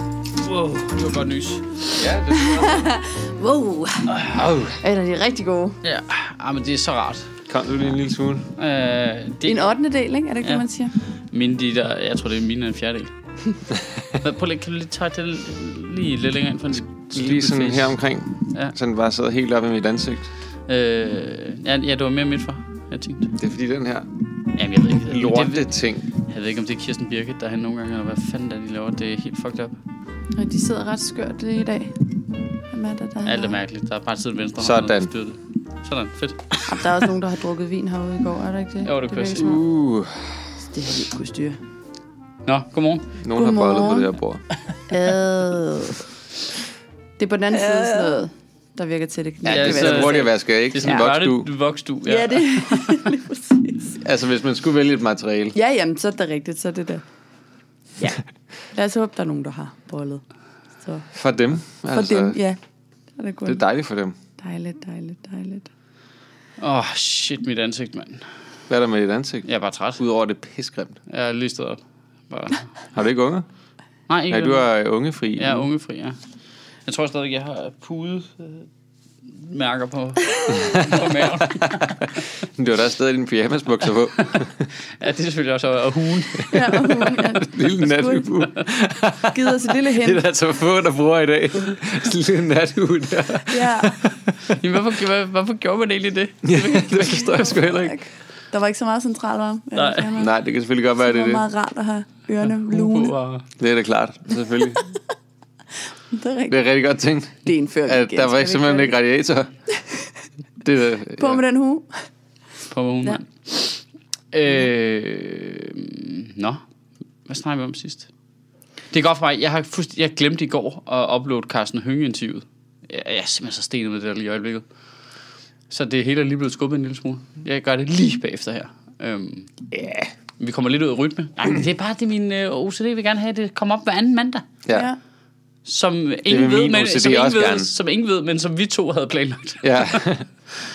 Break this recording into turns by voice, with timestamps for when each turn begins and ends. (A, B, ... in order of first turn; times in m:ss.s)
0:00.4-0:01.9 A
0:01.9-0:02.9 B
0:02.3-0:04.2 C
0:04.1-0:04.4 A
0:04.3-0:04.8 B
0:04.8-0:05.8 C
0:05.8-0:07.3 A
0:07.5-0:08.5 B
0:08.6-0:09.7 A
0:09.4-0:10.9 C
0:11.3-0:13.1 A
0:14.2-0:18.0 A
0:17.1-0:20.3 B
0:20.7-0:23.4 A
0:23.4-0:24.1 B
0:24.6-0:29.8 A
0:25.0-0:26.1 B
0:30.4-0:32.2 C
0:32.7-0:33.6 C
0:33.2-0:36.6 A
0:34.6-0:35.1 B
0:36.7-0:39.6 C
0:38.8-0:39.6 A
0:39.4-0:40.4 B
0:40.7-0:41.6 C
0:42.5-0:43.1 A
0:43.2-0:44.4 B
0:43.3-0:44.1 C
0:44.9-0:46.0 C
0:47.2-0:50.2 C
0:49.4-0:51.5 B
0:49.5-0:53.0 A
0:52.1-0:54.0 C
0:54.0-0:55.6 B
0:55.6-0:57.0 C
0:58.7-1:00.2 C
1:01.1-1:02.4 B
1:01.9-1:02.6 C
1:03.2-1:03.6 C
1:03.5-1:04.2 B
1:04.4-1:05.7 C
1:06.6-1:08.3 A
1:08.7-1:09.4 B
1:09.4-1:10.0 A
1:10.0-1:11.0 B
1:11.1-1:12.7 A
1:12.9-1:13.5 B
1:14.1-1:14.7 A
1:14.3-1:15.7 B
1:15.4-1:16.2 A
1:16.9-1:18.7 A
1:19.4-1:22.0 A
1:20.6-1:24.7 B
1:25.0-1:27.2 A
1:26.5-1:28.3 C
1:26.6-1:34.6 B
1:29.2-1:30.2 C
1:33.5-1:34.0 C
1:34.5-1:37.4 A
1:36.4-1:38.0 B
1:36.6-1:40.3 C
1:39.8-1:40.2 A
1:40.2-1:41.4 B
1:41.0-1:43.2 C
1:42.5-1:43.5 A
1:43.6-1:44.9 B
1:46.1-1:46.6 C
1:46.5-1:49.5 B
1:47.4-1:48.9 C
1:50.6-1:51.4 B
1:51.2-1:51.9 C
1:52.7-1:56.6 A
1:57.3-1:58.1 A
1:58.9-2:04.6 A
2:05.7-2:09.6 A
2:09.7-2:10.1 B
2:10.4-2:14.5 A
2:14.7-2:15.0 C
2:15.6-2:20.0 A
2:16.3-2:17.7 B
2:19.6-2:20.3 B